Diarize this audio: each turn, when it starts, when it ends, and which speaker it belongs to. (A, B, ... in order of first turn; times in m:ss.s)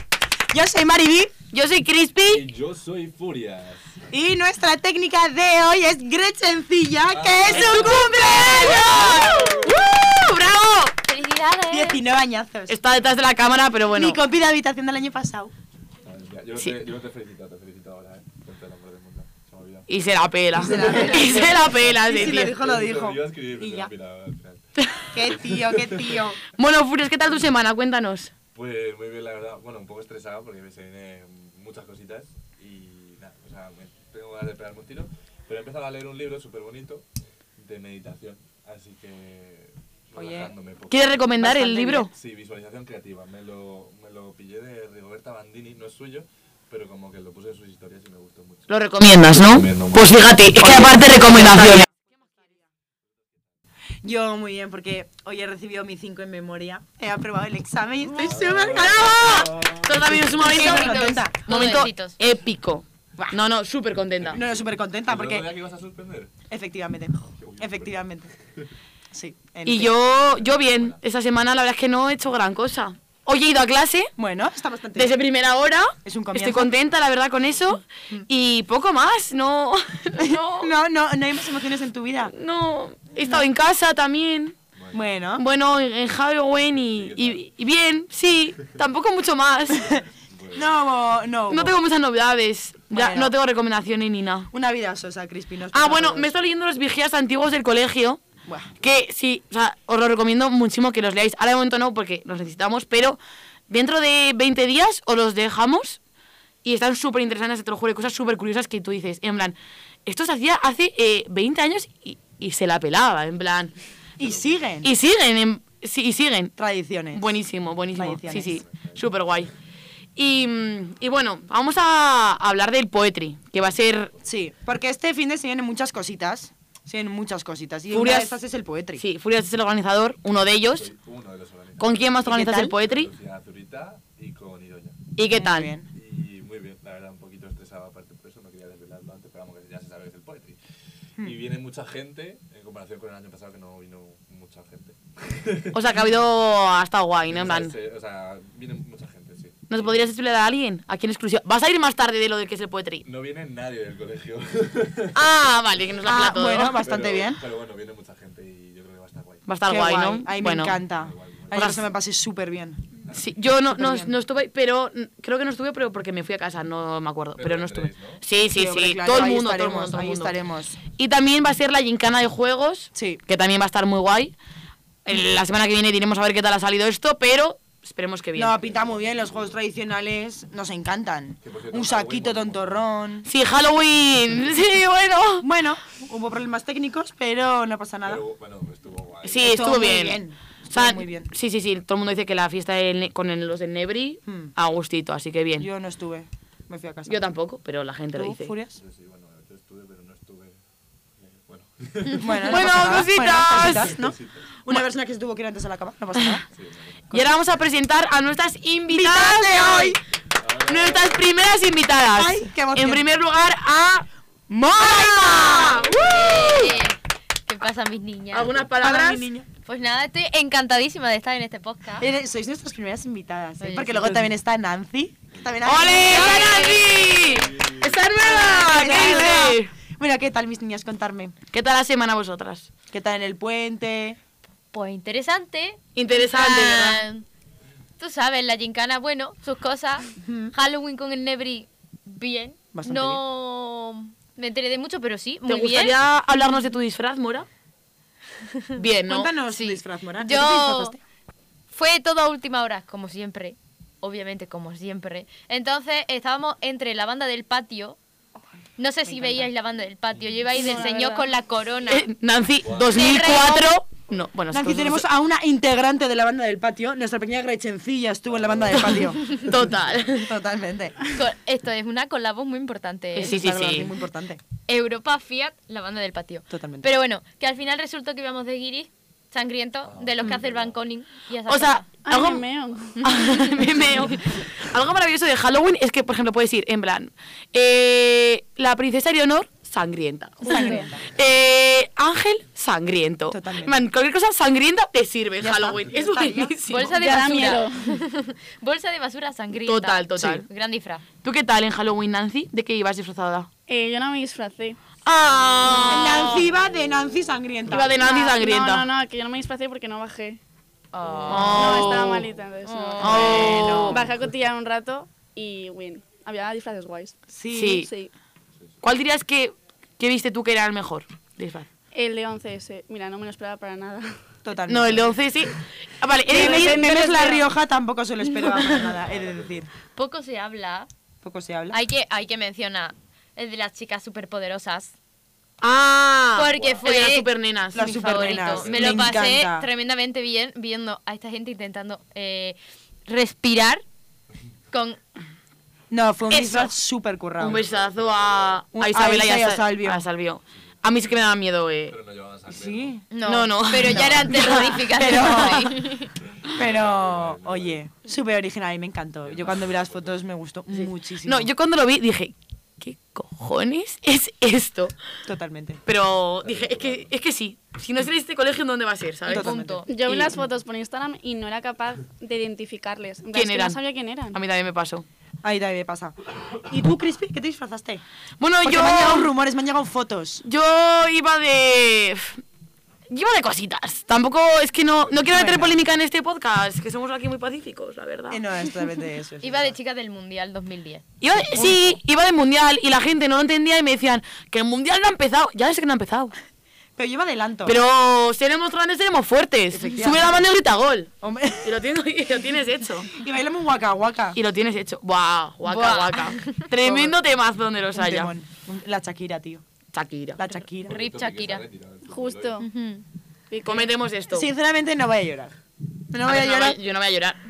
0:00.5-0:01.3 A
0:01.5-0:02.4 B
0:02.3-0:04.1 C
0:04.1-0:09.5 A
0:07.1-0:09.9 C
0:07.5-0:11.0 B
0:11.0-0:12.0 D
0:11.7-0:12.8 A
0:12.7-0:14.2 B
0:13.9-0:15.5 A
0:16.0-0:19.9 C
0:19.9-0:22.6 B
0:20.5-0:23.9 A
0:20.7-0:24.6 C
0:24.8-0:25.1 B
0:25.1-0:26.4 A
0:25.2-0:26.2 C
0:26.5-0:28.3 B
0:28.6-0:37.1 C
0:37.6-0:41.2 C
0:40.2-0:40.5 A
0:40.9-0:42.1 B
0:41.4-0:42.1 A
0:42.1-0:48.7 C
0:48.7-0:51.9 B
0:49.2-0:51.3 C
0:50.6-0:51.9 A
0:54.0-1:01.9 A
0:58.1-1:00.4 C
0:58.3-1:04.4 B
1:00.4-1:02.2 D
1:04.2-1:06.3 C
1:04.3-1:05.5 A
1:06.5-1:08.3 A
1:07.4-1:08.0 C
1:09.1-1:09.9 A
1:09.6-1:14.1 B
1:09.8-1:11.0 C
1:14.2-1:15.2 A
1:15.0-1:20.7 B
1:16.0-1:16.7 A
1:20.2-1:22.3 A
1:22.3-1:24.6 B
1:24.8-1:25.2 C
1:24.9-1:25.4 A
1:25.4-1:30.0 B
1:26.8-1:27.4 C
1:29.8-1:30.8 C
1:30.5-1:31.8 A
1:31.5-1:34.5 B
1:32.9-1:33.3 A
1:34.5-1:36.3 A
1:35.7-1:38.2 B
1:38.5-1:38.7 A
1:38.8-1:43.2 B
1:43.7-1:46.0 B
1:46.6-1:53.7 B
1:54.2-1:54.8 C
1:54.2-1:54.9 A
1:54.8-1:56.5 B
1:56.6-1:57.2 A
1:57.1-1:59.5 B
1:58.0-1:58.6 A
1:58.4-1:59.1 C
2:00.2-2:04.1 B
2:03.9-2:04.4 C
2:04.2-2:09.0 A
2:07.9-2:08.4 B
2:09.0-2:10.9 B
2:10.7-2:15.0 C
2:11.8-2:13.1 B
2:12.3-2:12.8 A
2:15.2-2:15.8 B
2:15.3-2:15.9 A
2:15.9-2:20.6 C
2:21.2-2:26.0 C
2:25.7-2:27.8 B
2:27.3-2:30.1 C
2:29.7-2:33.0 B
2:33.0-2:35.3 C
2:35.1-2:36.8 B
2:36.0-2:37.4 A
2:36.5-2:39.5 C
2:39.5-2:40.8 B
2:39.7-2:42.8 A
2:40.9-2:41.7 C
2:41.5-2:41.9 B
2:43.1-2:50.4 B
2:43.7-2:44.1 A
2:47.4-2:48.2 C
2:48.5-2:50.8 A
2:50.9-2:54.4 B
2:52.9-2:53.2 A
2:55.0-2:58.6 B
2:58.3-3:03.3 A
2:58.6-2:59.5 C
3:01.4-3:02.9 C
3:03.2-3:05.5 B
3:05.4-3:08.2 A
3:08.0-3:09.6 C
3:09.2-3:15.7 B
3:09.4-3:11.3 A
3:14.3-3:14.5 A
3:15.6-3:17.2 A
3:17.1-3:18.5 B
3:18.2-3:18.8 A
3:18.8-3:20.6 C
3:21.2-3:24.5 C
3:22.1-3:26.5 A
3:22.4-3:24.0 B
3:26.5-3:27.1 C
3:27.1-3:30.0 B
3:28.9-3:30.0 A
3:30.4-3:31.3 C
3:30.7-3:36.8 B
3:32.1-3:33.0 A
3:34.7-3:35.9 A
3:35.7-3:37.0 C
3:36.0-3:38.6 D
3:38.3-3:39.3 B
3:38.8-3:39.5 A
3:39.6-3:42.1 D
3:42.0-3:46.7 A
3:43.6-3:44.2 D
3:45.6-3:49.7 B
3:45.9-3:47.6 D
3:47.5-3:48.0 C
3:48.2-3:51.4 A
3:48.6-3:49.4 D
3:51.5-3:52.7 B
3:52.9-3:54.2 A
3:54.7-3:57.2 D
3:56.0-3:57.0 B
3:58.0-4:06.0 D
4:00.2-4:00.5 A
4:02.7-4:03.2 A
4:05.5-4:07.5 B
4:08.8-4:09.3 B
4:09.1-4:11.0 A
4:09.5-4:11.0 D
4:11.7-4:18.0 D
4:18.8-4:22.1 D
4:19.1-4:19.5 A
4:20.5-4:21.3 E
4:21.9-4:25.0 B
4:22.6-4:23.1 C
4:22.9-4:23.7 D
4:24.5-4:29.6 A
4:28.3-4:29.4 C
4:28.8-4:30.4 B
4:30.1-4:31.1 A
4:31.1-4:33.6 D
4:33.1-4:34.4 A
4:33.2-4:33.9 B
4:34.7-4:41.9 D
4:36.5-4:36.9 A
4:39.8-4:40.8 C
4:41.5-4:42.5 B
4:42.0-4:43.7 E
4:43.0-4:44.0 D
4:43.0-4:56.9 B
4:50.4-4:51.0 A
4:50.5-4:50.8 E
4:53.3-4:53.8 A
4:55.4-4:56.6 A
4:56.7-5:01.0 D
4:56.9-4:58.0 E
4:59.6-5:00.5 B
5:01.2-5:03.5 B
5:03.7-5:04.8 E
5:05.0-5:06.5 B
5:05.9-5:08.0 A
5:07.7-5:08.9 B
5:08.0-5:10.4 E
5:10.9-5:11.9 D
5:11.0-5:11.8 C
5:11.3-5:12.3 B
5:11.3-5:18.1 E
5:12.6-5:13.8 D
5:13.0-5:14.1 B
5:13.0-5:14.1 A
5:17.3-5:17.8 A
5:17.5-5:17.9 B
5:18.8-5:21.7 B
5:21.9-5:24.2 E
5:24.4-5:25.2 A
5:24.7-5:27.3 B
5:26.3-5:29.7 A
5:26.3-5:27.5 E
5:28.4-5:28.7 B
5:28.7-5:29.7 C
5:30.0-5:30.9 D
5:31.2-5:31.8 A
5:31.7-5:35.0 D
5:35.6-5:38.6 B
5:36.4-5:43.8 D
5:36.5-5:36.8 C
5:37.7-5:39.7 A
5:38.4-5:39.3 C
5:44.7-5:45.0 D
5:45.9-5:47.6 A
5:46.3-5:46.7 D
5:47.4-5:52.0 B
5:47.4-5:48.6 C
5:48.7-5:50.0 A
5:50.8-5:51.2 C
5:51.9-5:53.0 C
5:52.5-5:53.0 A
5:53.1-5:56.1 D
5:53.2-5:55.7 B
5:53.8-5:54.1 A
5:54.9-5:55.8 A
5:56.4-5:57.8 C
5:56.6-6:01.5 A
5:59.2-6:00.2 C
6:00.7-6:05.0 B
6:05.3-6:05.8 A
6:05.9-6:09.6 B
6:06.4-6:07.1 C
6:09.3-6:10.5 A
6:09.3-6:09.9 D
6:09.9-6:14.4 E
6:10.1-6:10.4 B
6:13.3-6:15.1 B
6:15.4-6:18.0 A
6:18.4-6:19.4 B
6:18.6-6:20.4 A
6:20.4-6:22.4 B
6:23.1-6:28.4 B
6:25.3-6:25.7 A
6:28.3-6:29.8 A
6:29.4-6:31.0 D
6:31.2-6:36.3 B
6:31.5-6:31.8 A
6:37.0-6:37.8 A
6:37.6-6:43.1 B
6:39.7-6:40.4 A
6:41.2-6:41.7 A
6:43.1-6:44.4 A
6:44.4-6:48.3 B
6:45.7-6:46.7 D
6:46.8-6:47.1 A
6:47.9-6:49.6 A
6:49.9-6:50.4 B
6:50.4-6:51.0 A
6:50.8-6:51.6 D
6:50.8-6:52.6 C
6:52.1-6:52.7 E
6:52.6-6:53.0 D
6:53.5-6:53.9 E
6:53.6-6:54.5 B
6:54.3-6:55.6 A
6:56.1-6:56.8 A
6:56.2-6:57.4 B